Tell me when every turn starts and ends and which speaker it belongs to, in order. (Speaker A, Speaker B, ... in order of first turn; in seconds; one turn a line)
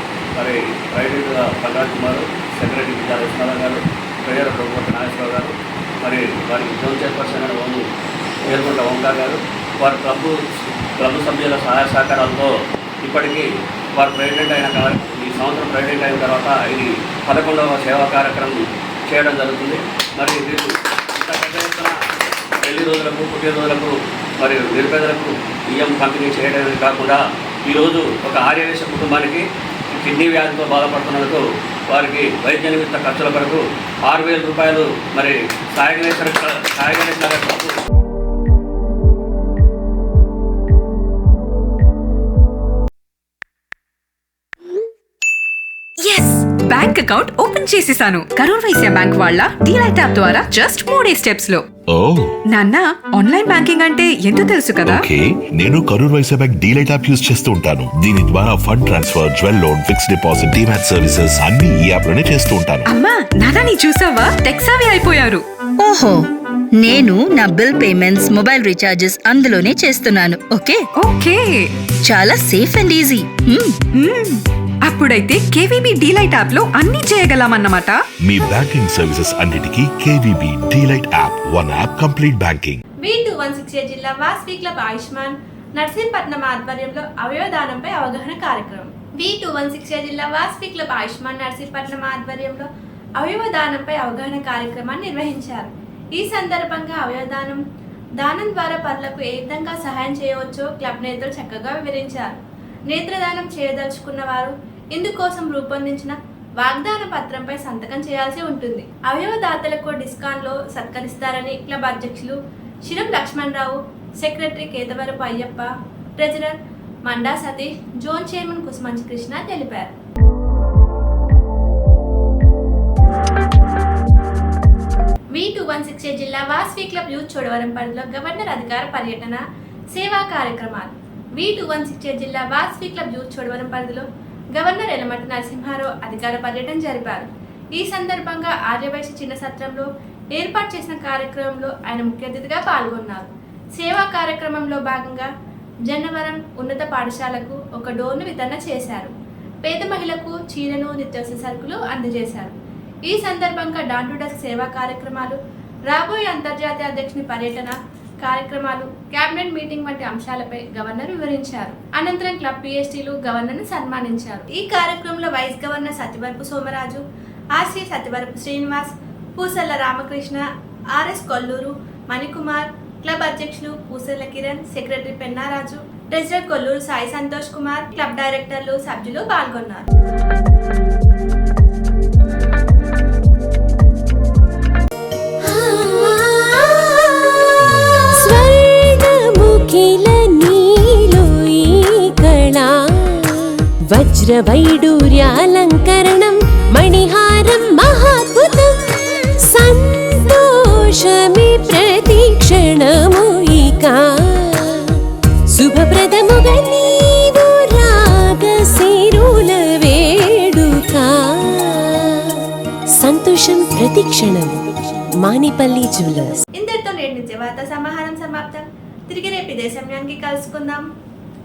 Speaker A: 0.4-7.8
Speaker A: 8.4-10.4
Speaker A: 11.0-22.0
Speaker A: 22.6-37.8
Speaker B: 46.0-51.6
Speaker C: 51.9-52.3
Speaker B: 52.5-55.1
Speaker C: 54.9-62.9
Speaker B: 62.9-65.4
Speaker D: 65.8-66.2
Speaker D: 66.8-70.8
Speaker B: 71.0-71.7
Speaker D: 72.1-73.8
Speaker B: 74.0-78.0
Speaker C: 78.2-82.8
Speaker E: 83.0-92.7
Speaker E: 93.2-97.6
Speaker E: 98.2-119.9
Speaker E: 125.3-145.3
Speaker E: 145.9-149.1
Speaker E: 149.6-152.6
Speaker E: 153.1-167.0
Speaker E: 167.6-170.4
Speaker E: 170.9-179.9
Speaker F: 185.5-205.0
Speaker F: 205.5-212.4
Speaker F: 213.0-214.7
Speaker F: 215.2-216.4
Speaker E: 216.6-220.8